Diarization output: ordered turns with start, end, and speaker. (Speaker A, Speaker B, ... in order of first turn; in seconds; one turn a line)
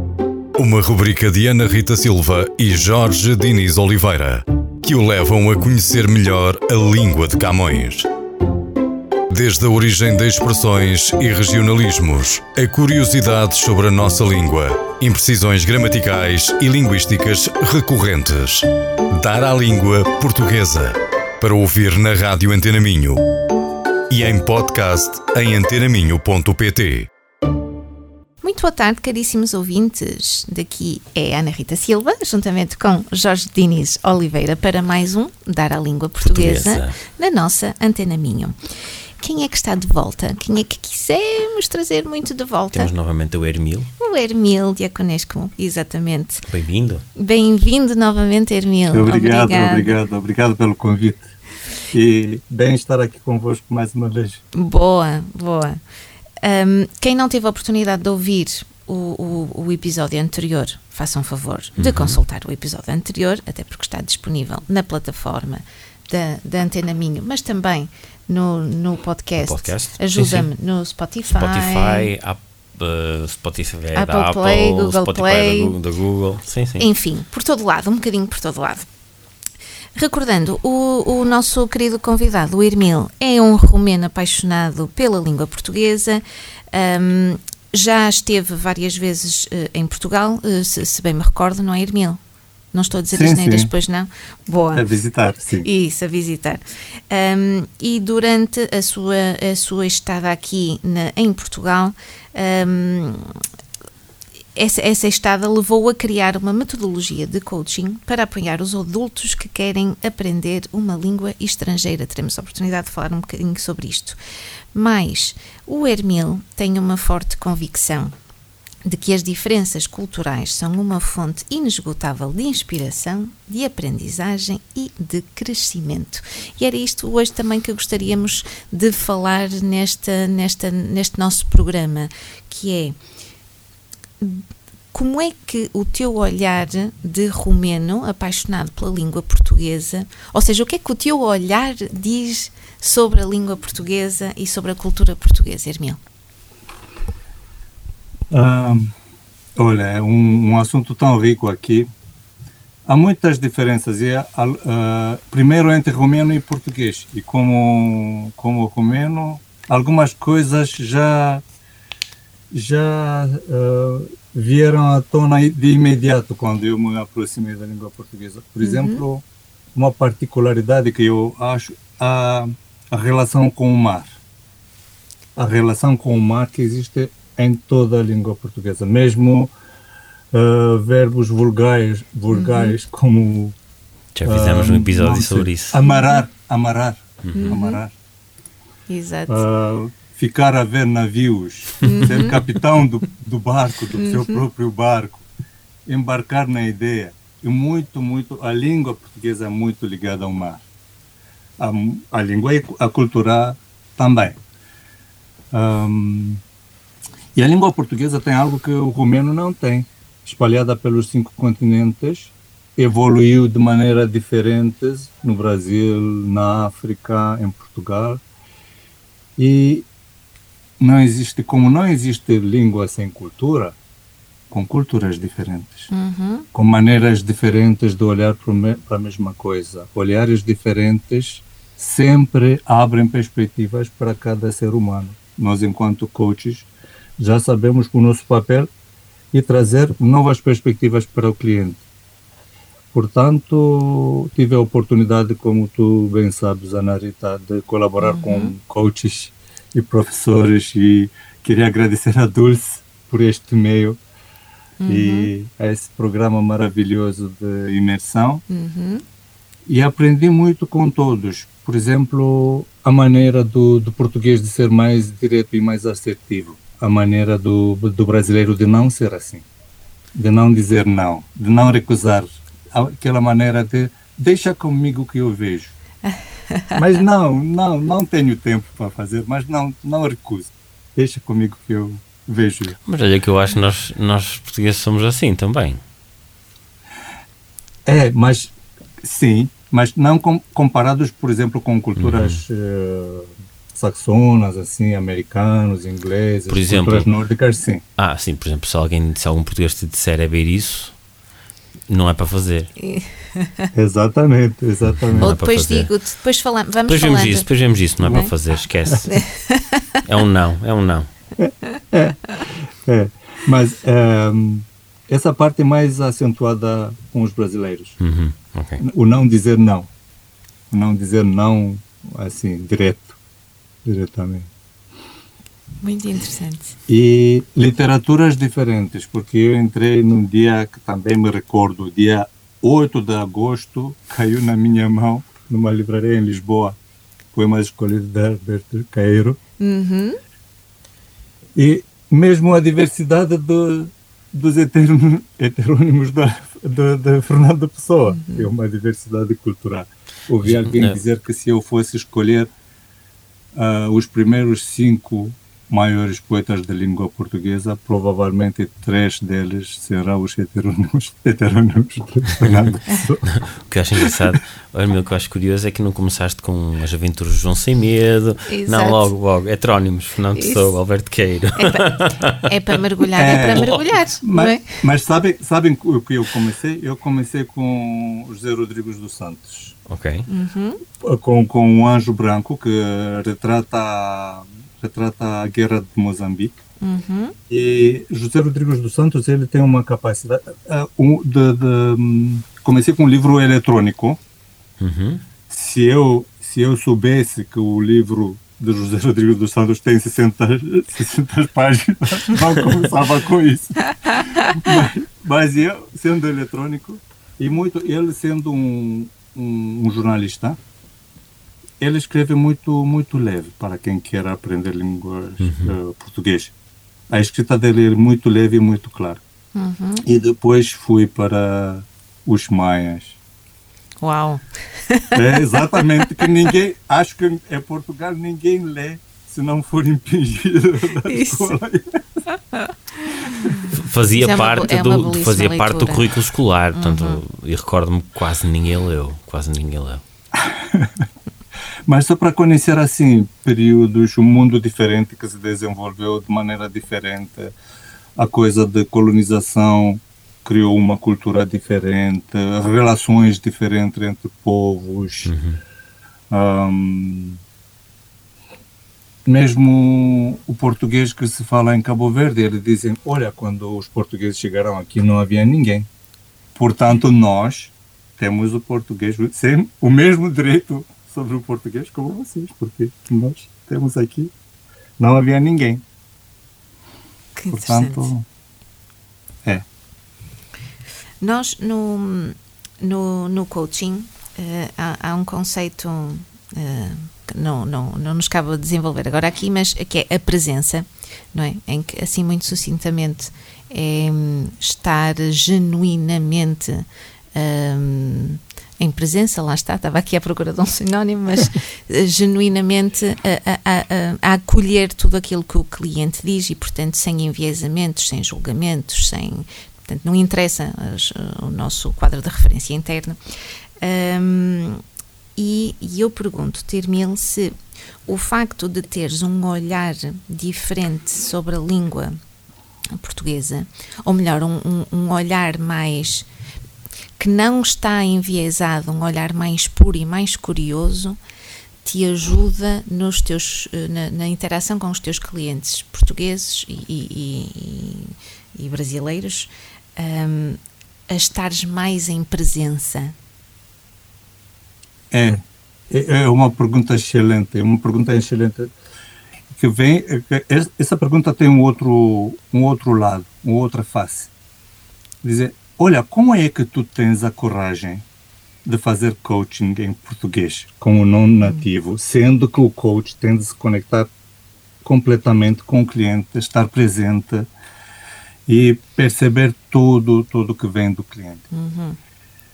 Speaker A: 0.6-8.1
Speaker A: 9.3-23.2
Speaker A: 24.1-27.1
Speaker B: 28.4-38.5
Speaker C: 36.2-37.0
Speaker B: 39.2-42.9
Speaker C: 42.7-43.9
Speaker B: 44.0-46.4
Speaker C: 46.5-47.0
Speaker B: 47.1-50.0
Speaker D: 48.9-51.3
Speaker D: 51.9-54.4
Speaker B: 54.5-55.8
Speaker B: 56.4-72.1
Speaker C: 61.8-62.2
Speaker C: 69.4-70.5
Speaker C: 71.3-76.9
Speaker B: 73.9-75.7
Speaker B: 76.8-78.9
Speaker B: 80.0-92.2
Speaker B: 92.7-94.8
Speaker D: 93.1-93.7
Speaker D: 94.7-95.7
Speaker B: 95.5-103.4
Speaker B: 104.5-114.2
Speaker B: 114.7-118.1
Speaker B: 118.8-133.0
Speaker B: 134.2-146.0
Speaker D: 148.3-148.9
Speaker D: 149.6-151.9
Speaker D: 152.8-161.4
Speaker D: 162.5-169.2
Speaker B: 168.6-169.0
Speaker D: 169.7-174.2
Speaker D: 175.3-179.5
Speaker D: 180.3-183.5
Speaker B: 182.3-182.8
Speaker C: 184.1-185.8
Speaker D: 184.2-187.9
Speaker B: 185.8-186.2
Speaker C: 187.2-187.5
Speaker B: 187.3-187.8
Speaker B: 188.9-189.4
Speaker D: 189.3-195.3
Speaker B: 191.8-192.4
Speaker B: 193.9-194.4
Speaker D: 195.8-200.7
Speaker D: 201.6-204.4
Speaker D: 205.5-206.4
Speaker D: 207.3-218.2
Speaker D: 219.4-219.9
Speaker D: 220.8-223.8
Speaker D: 224.5-225.9
Speaker B: 225.9-226.4
Speaker D: 226.5-238.7
Speaker D: 239.3-241.8
Speaker D: 242.9-254.0
Speaker B: 248.0-248.5
Speaker B: 254.8-255.3
Speaker D: 254.8-258.4
Speaker B: 258.5-259.0
Speaker D: 259.7-269.4
Speaker D: 270.1-275.7
Speaker B: 276.1-276.8
Speaker D: 276.7-282.8
Speaker C: 282.9-285.8
Speaker D: 287.9-297.8
Speaker C: 292.0-292.4
Speaker C: 296.5-297.1
Speaker C: 298.0-300.9
Speaker C: 301.9-302.7
Speaker B: 302.8-303.7
Speaker D: 303.7-305.3
Speaker C: 305.0-305.9
Speaker B: 305.2-307.5
Speaker C: 306.9-309.1
Speaker B: 309.1-310.0
Speaker C: 310.0-311.1
Speaker D: 311.4-312.2
Speaker D: 312.8-318.0
Speaker C: 318.0-318.8
Speaker D: 318.8-319.9
Speaker D: 320.7-323.2
Speaker D: 323.8-324.5
Speaker B: 325.8-326.7
Speaker D: 326.9-336.8
Speaker D: 337.3-339.4
Speaker B: 339.6-340.2
Speaker D: 341.6-352.5
Speaker B: 348.1-348.5
Speaker C: 350.4-350.9
Speaker D: 353.5-363.2
Speaker C: 363.2-372.4
Speaker B: 368.5-369.1
Speaker B: 370.4-370.7
Speaker B: 371.6-374.6
Speaker D: 373.1-379.7
Speaker C: 373.5-373.8
Speaker C: 379.9-380.2
Speaker B: 380.3-380.8
Speaker D: 381.0-386.6
Speaker B: 386.8-387.3
Speaker D: 387.5-394.2
Speaker C: 394.8-395.2
Speaker D: 395.5-410.6
Speaker D: 411.8-416.5
Speaker C: 415.4-415.7
Speaker D: 417.1-419.2
Speaker B: 419.5-420.0
Speaker D: 420.0-423.2
Speaker B: 424.0-425.2
Speaker D: 425.1-431.9
Speaker B: 431.0-431.5
Speaker B: 432.3-433.6
Speaker C: 433.7-440.0
Speaker B: 434.1-436.1
Speaker B: 436.7-437.2
Speaker D: 440.3-440.9
Speaker D: 441.9-447.5
Speaker D: 448.2-455.3
Speaker C: 455.2-455.6
Speaker D: 456.3-457.4
Speaker D: 459.2-465.9
Speaker D: 466.6-474.3
Speaker D: 475.0-475.8
Speaker B: 477.3-478.1
Speaker D: 477.5-478.2
Speaker B: 481.2-513.2
Speaker B: 513.8-514.8
Speaker B: 515.4-517.5
Speaker B: 518.0-522.2
Speaker B: 522.9-526.3
Speaker B: 527.2-531.2
Speaker B: 531.8-543.1
Speaker D: 545.1-548.7
Speaker D: 549.5-554.3
Speaker D: 555.2-558.0
Speaker D: 558.6-564.1
Speaker B: 561.4-561.6
Speaker D: 564.8-567.5
Speaker D: 568.5-571.4
Speaker B: 571.5-572.0